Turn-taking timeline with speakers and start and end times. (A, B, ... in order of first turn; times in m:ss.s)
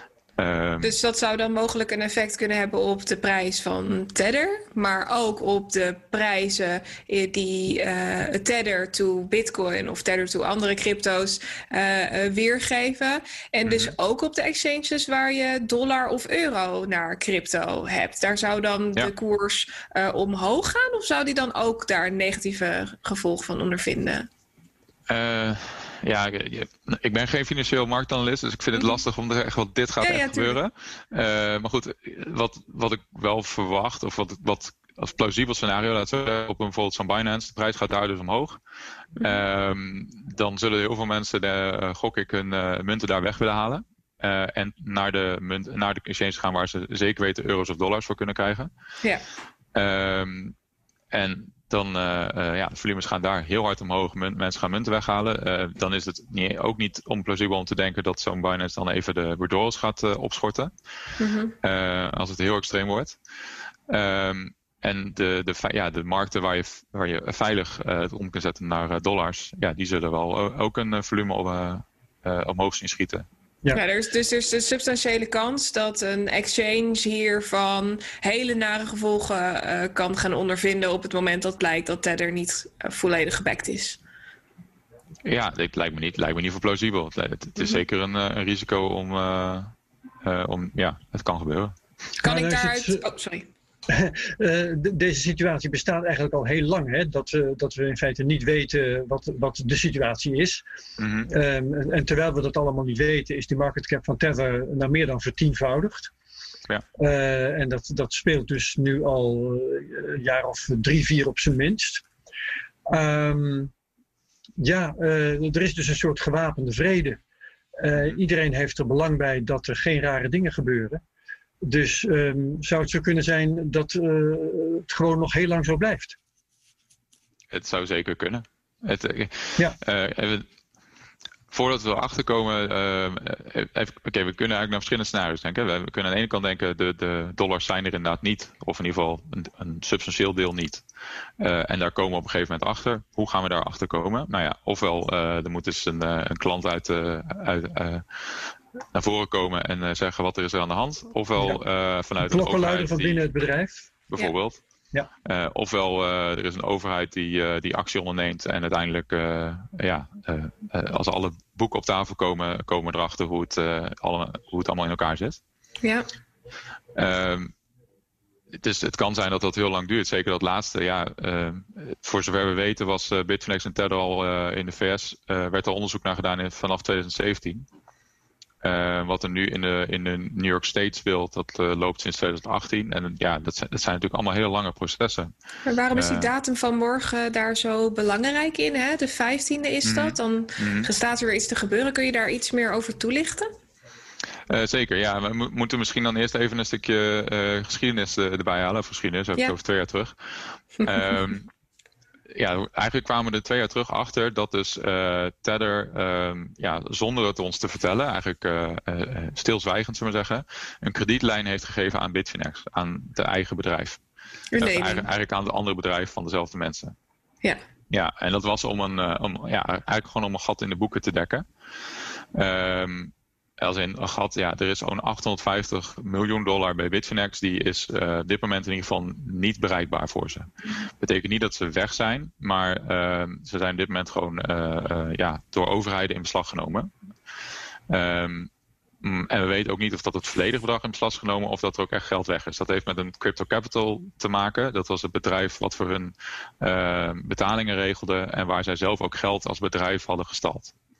0:00.4-0:00.9 A
0:00.8-0:24.3 B
0:13.6-0:13.9 A
0:25.1-0:38.6 A
0:28.8-0:29.0 B
0:30.0-0:30.6 B
0:39.2-0:48.7 A
0:49.7-0:50.5 A
0:51.1-1:00.7 A
1:01.2-1:01.5 B
1:01.6-1:03.2 A
1:03.9-1:13.3 A
1:13.7-1:24.0 B
1:25.2-1:29.7 A
1:30.2-1:31.8 A
1:32.2-1:33.0 C
1:32.2-1:33.5 B
1:33.9-1:40.6 C
1:41.0-1:41.3 A
1:41.3-1:46.1 C
1:47.0-1:52.0 C
1:52.9-1:53.7 C
1:54.6-1:57.2 C
1:57.8-2:01.0 C
2:01.6-2:06.2 C
2:07.5-2:10.4 A
2:11.5-2:20.8 A
2:21.4-2:33.3 A
2:32.2-2:33.9 C
2:34.1-2:34.6 A
2:35.2-2:45.4 A
2:46.9-2:47.5 A
2:48.6-2:57.6 A
2:58.6-3:05.3 A
3:05.6-3:13.5 B
3:05.9-3:06.3 A
3:09.8-3:10.9 A
3:14.5-3:20.1 A
3:20.8-3:21.5 A
3:22.3-3:34.0 A
3:34.5-3:35.1 B
3:34.6-3:36.9 A
3:37.9-3:41.4 A
3:42.3-3:56.9 A
3:57.9-3:58.5 A
3:59.0-4:10.7 A